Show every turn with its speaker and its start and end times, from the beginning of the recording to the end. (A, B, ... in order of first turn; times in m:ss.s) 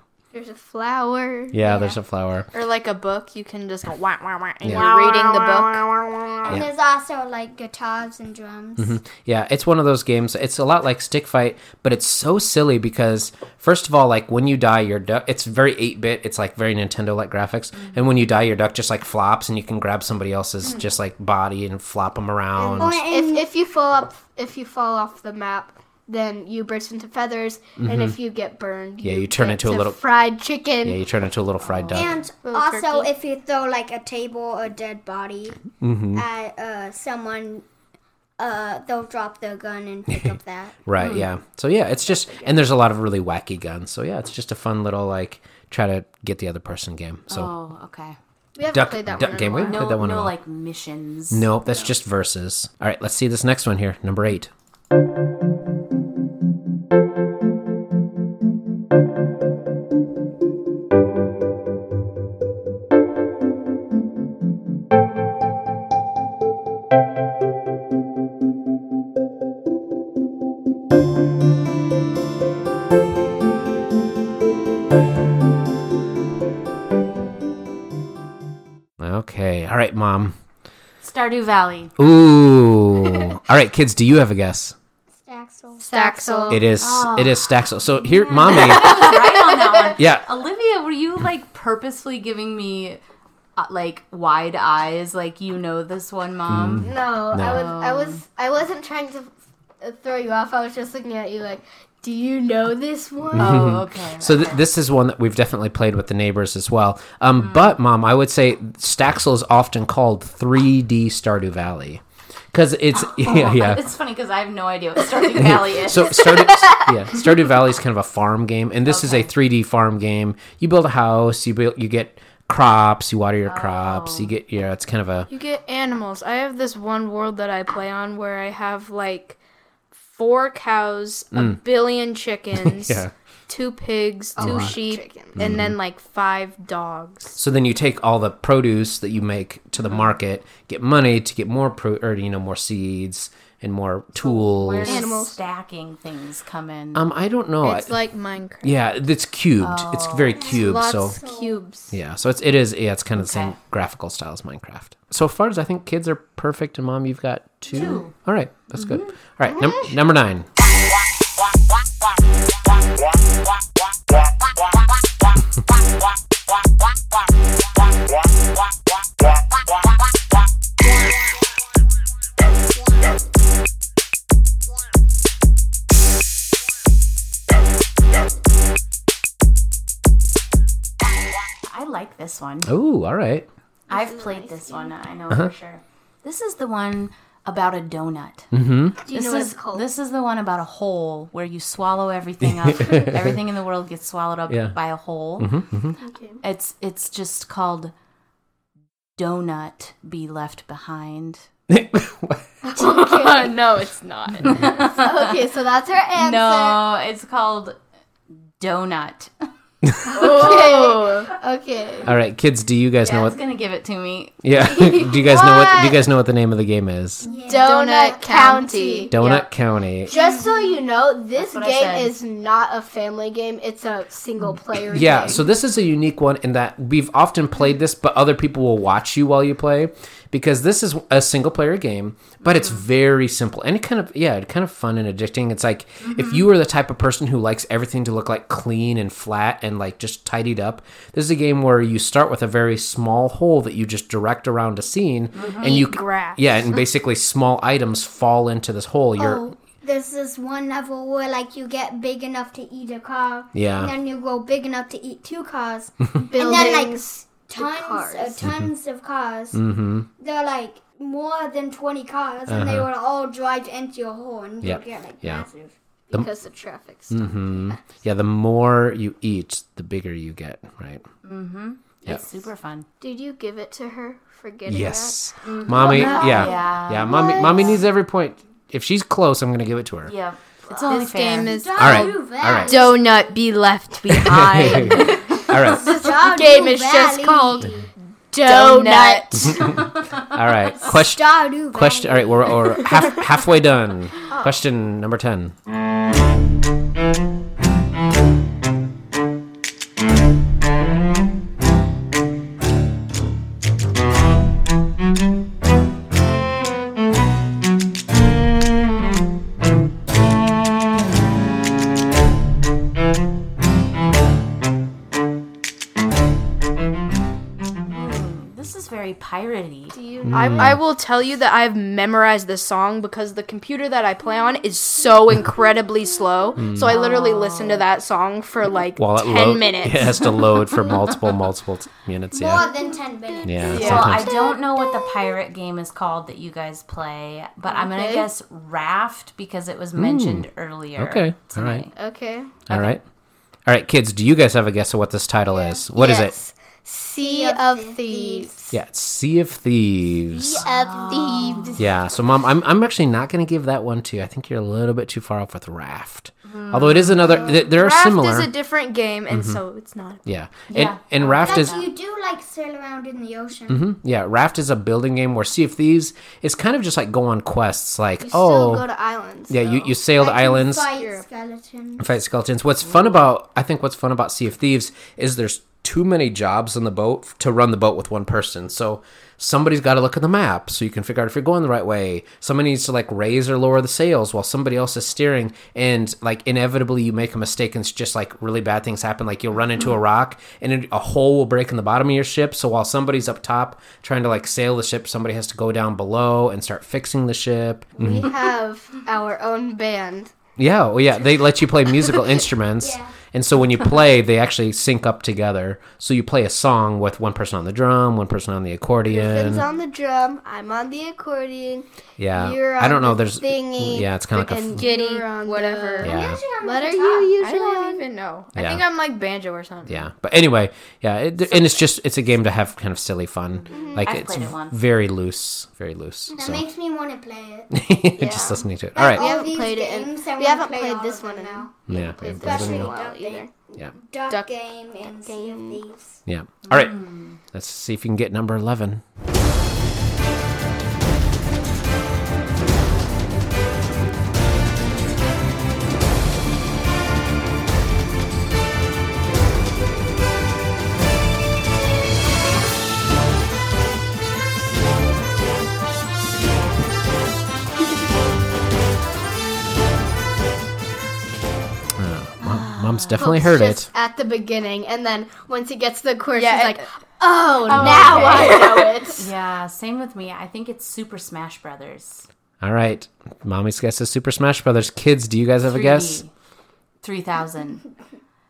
0:00.3-0:01.9 A
0:01.5-0:02.5 B
0:02.5-0:06.6 C
0:06.4-0:09.0 D
0:08.8-0:23.0 B
0:17.7-0:18.1 E
0:22.6-0:31.0 A
0:22.8-0:23.5 D
0:27.8-0:28.2 B
0:29.0-0:30.0 B
0:30.8-0:32.2 B
0:31.6-0:32.0 E
0:31.9-0:37.6 D
0:32.4-0:33.1 C
0:35.8-0:36.2 B
0:38.4-0:40.8 D
0:40.1-0:47.5 B
0:41.0-0:41.3 E
0:47.3-0:48.2 E
0:48.6-0:50.0 A
0:48.7-0:50.4 B
0:49.5-0:51.5 E
0:51.3-0:54.5 B
1:19.0-1:20.3 B
1:21.0-1:21.9 E
1:22.0-1:24.7 B
1:25.2-1:25.9 D
1:25.9-1:26.6 A
1:25.9-1:26.6 C
1:26.5-1:29.1 B
1:26.8-1:27.5 E
1:28.4-1:33.0 E
1:30.0-1:30.2 B
1:33.6-1:38.2 E
1:36.5-1:37.7 B
1:36.8-1:43.8 A
1:43.3-1:53.8 B
1:43.3-1:44.6 E
1:47.4-1:47.8 E
1:53.0-1:56.5 E
1:55.3-2:05.3 B
1:58.8-1:59.3 E
2:03.4-2:04.3 E
2:05.3-2:09.4 C
2:09.9-2:17.3 C
2:11.3-2:11.6 B
2:12.6-2:13.1 B
2:14.4-2:14.8 B
2:14.4-2:15.4 A
2:15.4-2:15.7 B
2:17.4-2:25.0 B
2:24.6-2:27.1 E
2:24.8-2:25.4 A
2:26.9-2:27.9 B
2:27.6-2:28.8 C
2:28.6-2:31.2 B
2:29.6-2:30.4 E
2:30.3-2:31.6 D
2:30.5-2:31.9 C
2:31.9-2:40.5 B
2:33.1-2:33.6 E
2:37.7-2:38.1 E
2:38.7-2:39.2 E
3:01.7-3:02.7 E
3:02.6-3:03.5 B
3:03.9-3:08.5 E
3:03.9-3:04.8 A
3:08.5-3:09.0 B
3:09.0-3:09.8 A
3:09.0-3:15.6 E
3:12.4-3:13.3 B
3:14.5-3:14.8 B
3:15.4-3:16.0 B
3:16.0-3:16.4 A
3:16.4-3:17.9 E
3:19.2-3:21.4 E
3:21.7-3:22.5 B
3:22.6-3:23.5 A
3:22.7-3:24.7 C
3:24.4-3:25.3 E
3:24.7-3:26.8 A
3:26.1-3:27.8 E
3:28.6-3:29.3 E
3:30.1-3:32.1 A
3:30.1-3:31.2 C
3:32.0-3:33.4 B
3:33.0-3:34.4 E
3:34.4-3:37.3 B
3:35.3-3:35.6 A
3:37.2-3:37.9 D
3:37.4-3:39.2 A
3:37.5-3:39.4 C
3:39.1-3:40.1 B
3:40.0-3:45.5 A
3:40.1-3:40.8 D
3:41.3-3:42.2 E
3:44.9-4:09.5 B
3:52.4-3:52.8 E
3:56.0-3:56.5 E
4:05.3-4:05.8 E
4:05.6-4:06.4 C
4:09.2-4:19.6 D
4:13.5-4:13.9 B
4:16.3-4:18.4 A
4:18.4-4:18.7 B
4:19.5-4:20.1 B
4:20.2-4:25.7 D
4:22.5-4:22.9 B
4:24.6-4:25.4 B
4:26.1-4:27.8 A
4:27.1-4:31.0 B
4:31.2-4:32.9 E
4:33.0-4:35.2 A
4:34.6-4:40.1 B
4:35.4-4:37.7 E
4:35.8-4:36.4 A
4:35.8-4:37.8 D
4:40.0-4:41.5 E
4:40.7-4:45.4 C
4:41.4-4:43.3 D
4:41.8-4:42.9 B
4:44.1-4:45.9 B
4:45.4-4:49.6 A
4:45.7-4:47.9 D
4:48.4-4:49.5 C
4:49.7-4:50.3 E
4:50.2-4:55.5 B
4:50.8-4:52.6 D
5:17.8-5:20.0 E
5:19.9-5:20.7 A
5:20.2-5:20.8 B
5:20.3-5:30.2 C
5:26.6-5:26.9 B
5:26.9-5:27.8 E
5:29.0-5:32.7 B
5:32.3-5:34.2 D
5:32.9-5:33.8 A
5:33.4-5:34.3 B
5:33.7-5:34.2 C
5:33.7-5:41.9 E
5:37.7-5:38.3 A
5:40.0-5:41.9 B
5:41.9-5:42.6 A
5:42.7-5:43.0 B
5:42.7-5:43.0 E
5:43.6-5:46.3 B
5:45.5-5:48.8 A
5:47.2-5:48.5 D
5:48.7-5:50.6 B
5:50.3-5:51.8 A
5:50.6-5:51.8 E
5:51.2-5:51.4 D
5:51.8-5:58.5 B
5:56.4-5:57.5 E
5:57.6-6:00.2 C
5:59.3-5:59.6 B
6:00.2-6:01.8 B
6:00.7-6:01.9 E
6:01.4-6:03.9 D
6:03.7-6:08.8 B
6:08.2-6:10.0 A
6:09.5-6:10.9 B
6:10.2-6:12.2 D
6:12.0-6:38.3 B
6:38.0-6:40.3 A
6:40.6-6:49.6 B
6:42.8-6:43.1 D
6:49.1-6:58.0 A
6:52.2-6:54.9 B
6:54.8-6:56.1 C
6:56.0-6:57.5 D
6:56.0-6:56.4 B
6:57.4-7:00.1 C
6:58.5-6:58.8 B
6:59.8-7:06.6 B
7:03.7-7:04.1 A
7:04.0-7:04.8 E
7:06.3-7:07.8 D
7:07.7-7:09.2 B
7:08.2-7:13.5 A
7:09.0-7:16.2 D
7:11.9-7:12.9 B
7:15.2-7:15.8 A
7:16.3-7:19.0 B
7:16.6-7:17.4 E
7:42.0-7:43.9 B
7:42.4-7:43.2 E
7:43.2-7:49.3 A
7:46.3-7:46.9 C
7:47.7-7:48.5 B
7:47.7-7:48.9 C
7:47.8-7:48.5 E
7:49.1-7:52.2 E
7:52.6-7:56.2 B
7:55.6-7:56.3 E
7:57.0-7:57.8 E